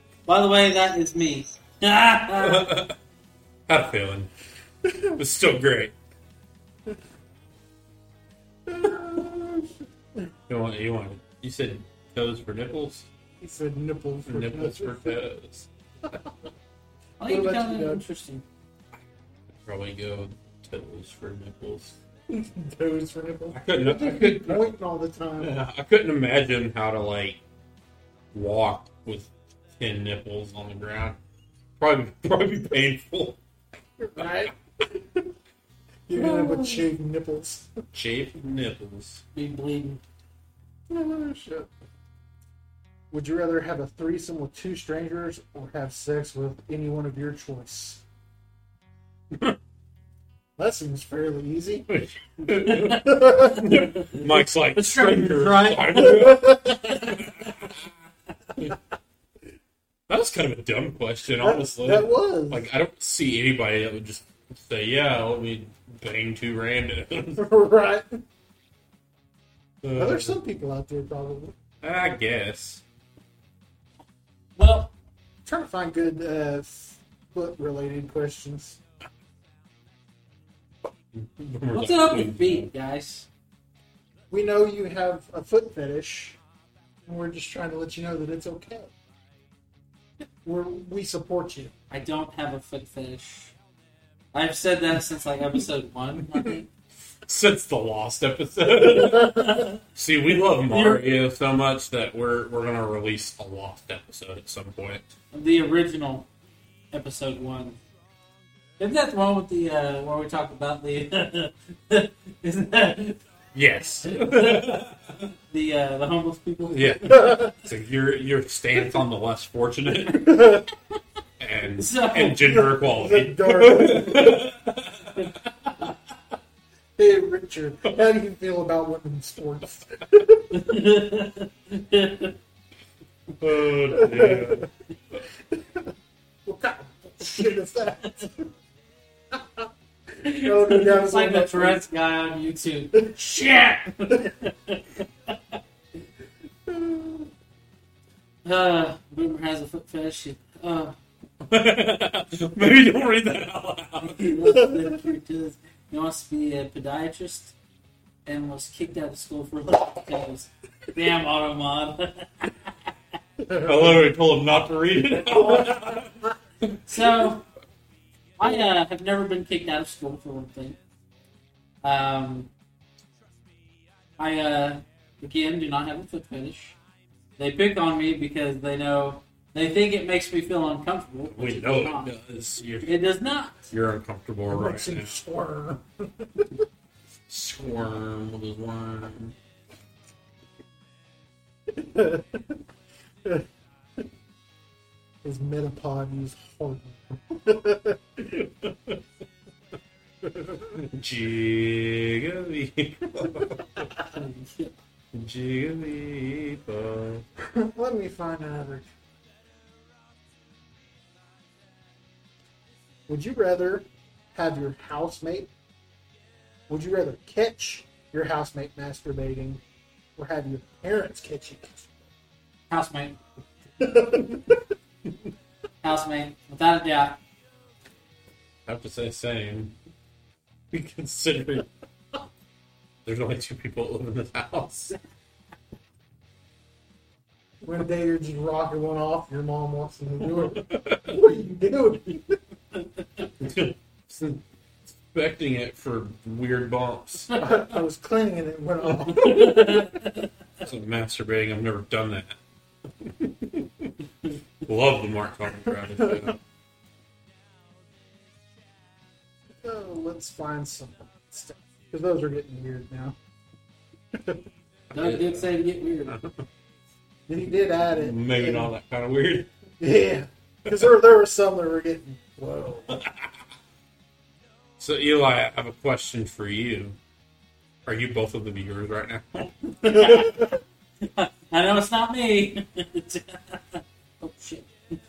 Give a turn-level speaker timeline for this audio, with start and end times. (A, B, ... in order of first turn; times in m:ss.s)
0:00.3-0:02.7 A
0:02.4-0:03.0 B
0:03.7-0:04.3 B
0:05.0-0:05.9 B
0:08.7-0:09.8 C
0:10.5-0:13.1 B
0:13.4-0:15.2 C
0:14.3-0:15.7 B
0:17.2-0:18.4 A
0:17.2-0:18.0 C
0:19.6-0:22.0 B
0:22.3-0:25.6 C
0:23.5-0:24.7 B
0:25.4-0:27.4 B
0:28.3-0:31.2 B
0:31.8-0:33.4 B
0:34.0-0:35.3 C
0:34.2-0:34.5 B
0:36.1-0:37.7 C
0:36.1-0:36.9 B
0:37.9-0:39.2 B
0:39.4-0:40.0 A
0:40.9-0:41.7 B
0:43.1-0:48.0 C
0:50.6-0:51.9 C
0:51.9-0:57.9 B
0:52.5-0:53.0 A
0:53.0-0:53.7 C
0:53.7-0:54.2 A
0:54.8-0:56.2 A
0:56.0-0:56.9 C
1:00.1-1:07.4 B
1:01.4-1:02.7 C
1:07.4-1:08.2 C
1:09.8-1:10.4 B
1:10.0-1:11.6 C
1:11.8-1:12.8 B
1:14.6-1:14.9 A
1:15.5-1:18.8 C
1:21.1-1:22.7 B
1:21.7-1:23.3 A
1:24.3-1:26.4 C
1:27.1-1:28.9 C
1:30.4-1:31.7 C
1:31.9-1:33.5 A
1:34.3-1:36.7 A
1:37.3-1:45.1 B
1:39.2-1:39.8 A
1:40.7-1:41.0 A
1:45.3-1:46.3 A
1:46.9-1:47.8 A
1:48.8-1:53.2 A
1:53.6-1:55.0 B
1:54.0-1:54.8 A
1:55.5-1:57.4 A
1:56.7-2:00.6 B
2:00.2-2:00.7 C
2:01.4-2:05.8 B
2:01.8-2:02.5 A
2:02.4-2:04.4 C
2:07.0-2:10.5 C
2:10.5-2:12.3 A
2:13.4-2:14.7 B
2:13.9-2:14.7 C
2:15.5-2:15.9 C
2:16.5-2:18.5 C
2:19.3-2:19.7 C
2:20.2-2:25.0 A
2:20.2-2:21.8 C
2:26.7-2:27.3 C
2:28.4-2:31.0 A
2:31.5-2:34.3 B
2:34.0-2:37.5 A
2:34.6-2:34.9 C
2:38.3-2:42.7 A
2:43.5-2:43.8 C
2:43.5-2:46.1 B
2:46.9-2:47.5 A
2:48.4-2:50.8 A
2:51.8-2:52.5 A
2:54.2-2:56.8 A
2:57.4-3:02.1 A
3:01.3-3:02.9 B
3:02.8-3:03.6 A
3:03.7-3:05.2 B
3:04.5-3:06.6 C
3:07.3-3:09.4 B
3:11.7-3:12.5 C
3:15.2-3:18.3 C
3:18.4-3:19.0 B
3:20.4-3:20.6 C
3:20.7-3:23.9 B
3:24.1-3:24.7 A
3:25.1-3:27.2 B
3:27.5-3:28.9 C
3:33.1-3:35.5 C
3:36.7-3:39.6 C
3:40.2-3:41.9 C
3:42.7-3:43.2 A
3:43.8-3:44.6 C
3:45.8-3:47.2 A
3:48.7-3:49.8 B
3:50.7-3:51.7 B
3:53.0-3:55.0 B
3:57.6-4:02.4 C
4:00.4-4:01.2 B
4:03.4-4:04.4 B
4:05.0-4:07.3 B
4:07.3-4:07.6 A
4:07.4-4:09.6 C
4:09.1-4:10.3 A
4:10.6-4:12.4 B
4:13.0-4:13.9 B
4:14.6-4:16.4 B
4:19.6-4:23.2 C
4:24.1-4:24.4 C
4:24.9-4:25.5 B
4:24.9-4:26.2 A
4:26.1-4:26.4 B
4:27.3-4:28.7 C
4:27.9-4:29.5 B
4:29.8-4:33.0 C
4:32.9-4:33.2 B
4:34.8-4:37.0 B
4:37.9-4:40.2 B
4:39.8-4:40.3 A
4:40.0-4:40.5 C
4:41.0-4:45.0 A